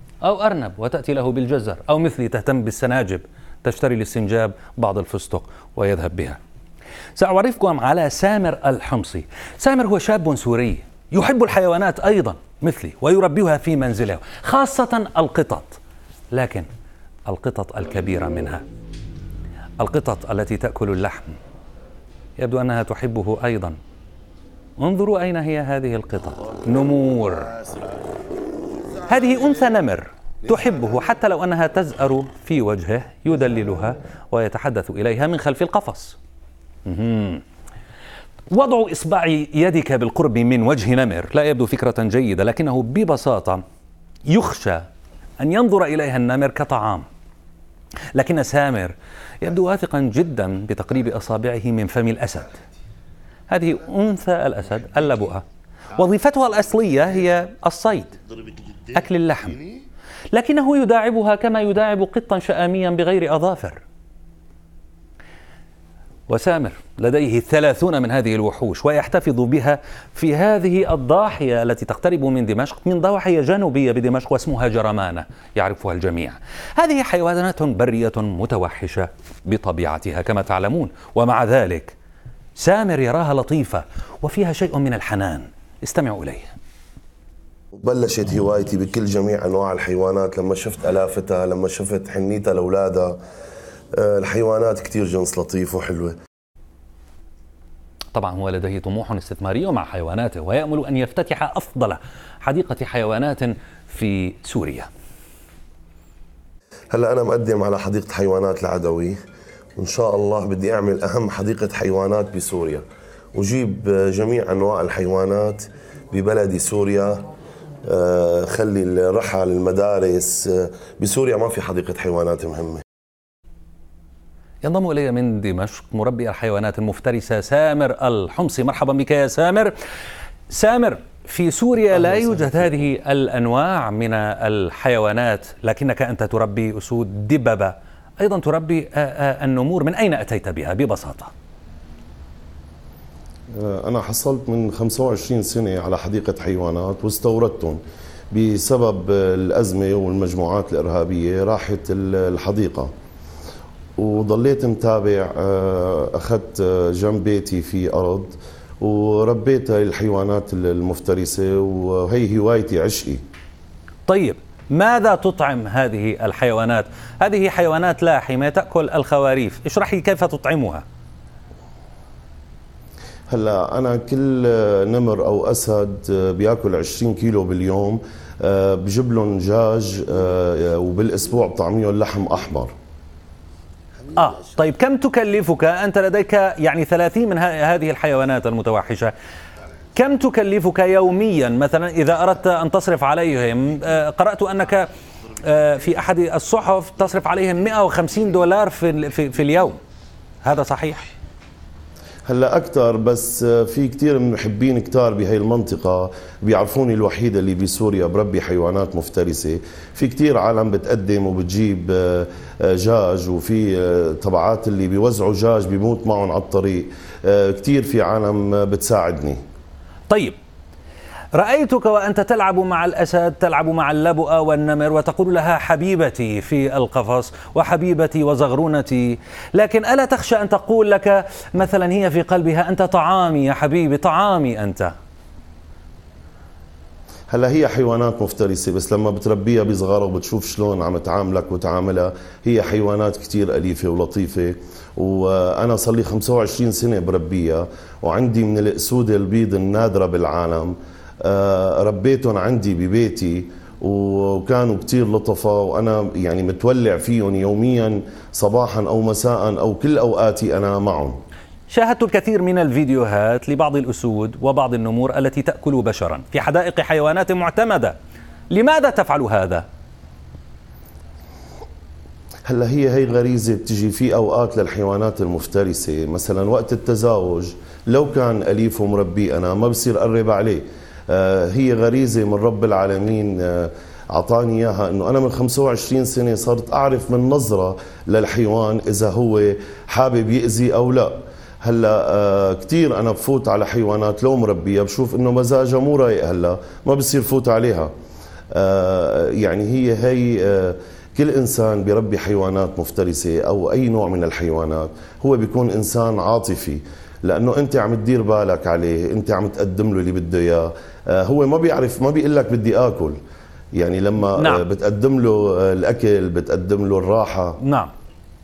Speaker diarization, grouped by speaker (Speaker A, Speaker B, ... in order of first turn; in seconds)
Speaker A: 0.2-6.4, 7.2-15.8, 16.3-16.7, 17.3-18.7, 19.8-21.4, 22.4-23.8, 24.8-27.6, 29.0-36.2, 36.9-37.4, 38.5-43.6, 44.3-44.9, 45.4-47.0, 48.1-52.6, 53.5-58.2, 58.9-59.7, 60.3-63.8, 66.3-82.0, 82.6-86.5, 98.2-104.9, 124.6-129.7, 130.5-141.3, 164.1-170.8, 184.1-189.1, 189.9-199.8, 200.4-201.1, 220.1-220.3, 221.3-234.9, 261.7-267.9, 268.5-269.7, 314.4-314.6, 317.6-317.9
Speaker B: 87.8-93.2, 93.9-96.2, 106.9-109.2, 109.8-117.3, 117.8-122.8, 143.5-147.8, 148.3-152.9, 154.0-163.2, 173.3-182.7, 202.3-219.4, 237.3-261.2, 272.5-297.9, 298.5-313.2, 313.7-317.6